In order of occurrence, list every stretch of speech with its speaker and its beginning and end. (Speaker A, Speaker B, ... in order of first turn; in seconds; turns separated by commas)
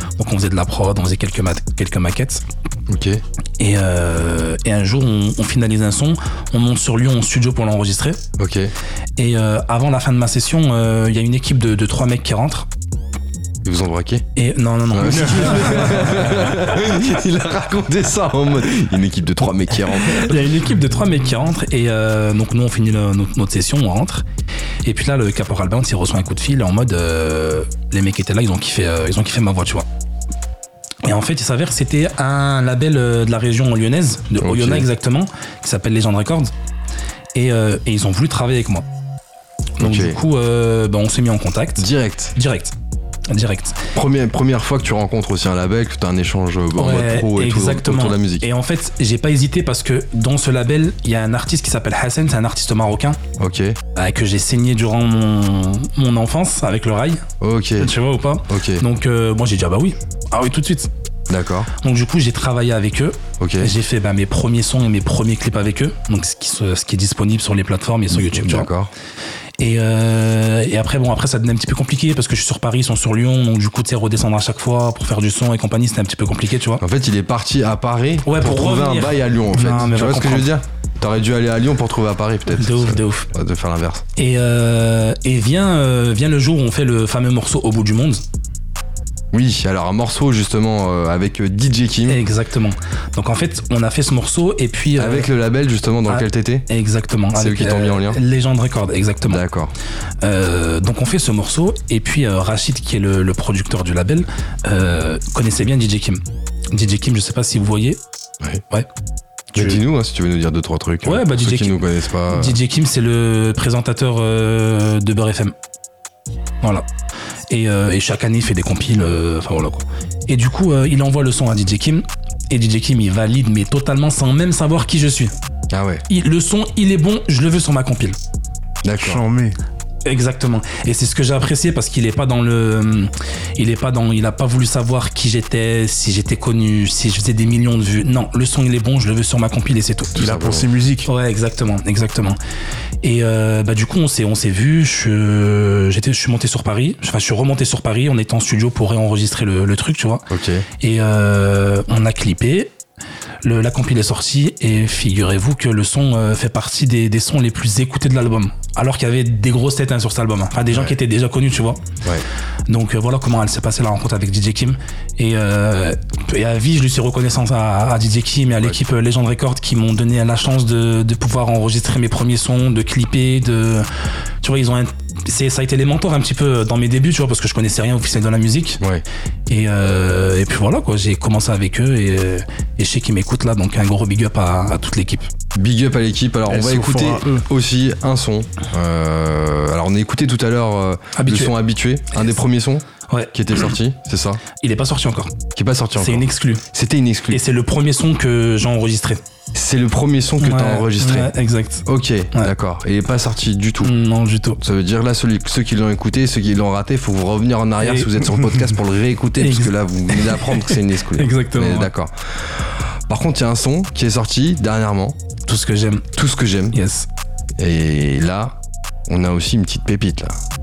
Speaker A: 0.2-2.4, Speaker B: 2.9-3.2, Speaker A: 3.6-8.2, Speaker B: 8.4-8.7, Speaker A: 9.2-12.7, Speaker B: 13.6-14.3, Speaker A: 14.4-16.3, Speaker B: 14.9-20.4, Speaker A: 20.1-24.2, Speaker A: 24.9-29.9, Speaker A: 31.0-36.5, Speaker B: 34.4-34.9, Speaker A: 37.3-38.9, Speaker B: 39.8-40.2, Speaker A: 39.8-42.7, Speaker B: 41.8-42.4, Speaker A: 43.3-43.9, Speaker B: 43.9-48.5, Speaker A: 46.8-53.2, Speaker B: 53.4-53.8, Speaker A: 54.0-57.2, Speaker B: 57.4-57.9, Speaker A: 57.8-60.9, Speaker B: 58.5-58.9, Speaker B: 61.3-61.7, Speaker A: 61.8-68.7, Speaker B: 63.4-63.7, Speaker B: 68.1-68.9, Speaker A: 69.6-76.8, Speaker B: 76.8-84.0, Speaker A: 78.2-80.5, Speaker A: 82.6-83.3, Speaker A: 84.2-88.2, Speaker B: 89.3-92.2, Speaker A: 92.1-95.3, Speaker B: 95.0-96.7, Speaker A: 96.1-99.4, Speaker B: 97.3-98.2, Speaker B: 99.3-99.7, Speaker A: 100.2-106.2, Speaker A: 106.7-108.0, Speaker A: 109.5-109.8, Speaker B: 109.5-112.6, Speaker A: 111.0-115.5, Speaker A: 117.5-125.3, Speaker B: 125.7-126.0, Speaker A: 126.1-128.2, Speaker B: 128.8-129.2, Speaker C: 128.9-129.6, Speaker A: 130.1-140.1, Speaker B: 140.1-140.7, Speaker C: 140.2-141.1, Speaker A: 141.1-142.4, Speaker A: 143.0-150.3, Speaker B: 150.3-150.7, Speaker A: 150.8-152.7, Speaker A: 153.4-161.8, Speaker B: 160.7-161.0, Speaker A: 162.7-173.9, Speaker A: 174.4-178.8, Speaker A: 179.5-185.3, Speaker B: 185.5-194.4, Speaker C: 186.5-187.4, Speaker A: 191.2-191.6, Speaker A: 194.6-195.3, Speaker B: 195.6-197.4, Speaker A: 196.0-196.7, Speaker A: 197.3-199.2, Speaker B: 199.5-201.3, Speaker A: 200.4-202.5, Speaker B: 201.9-204.0, Speaker A: 203.8-204.6, Speaker B: 204.6-215.2, Speaker A: 207.8-208.6, Speaker A: 209.4-211.9, Speaker A: 215.5-216.1, Speaker B: 216.1-216.8, Speaker A: 216.7-217.1, Speaker B: 217.6-218.6, Speaker B: 219.1-220.4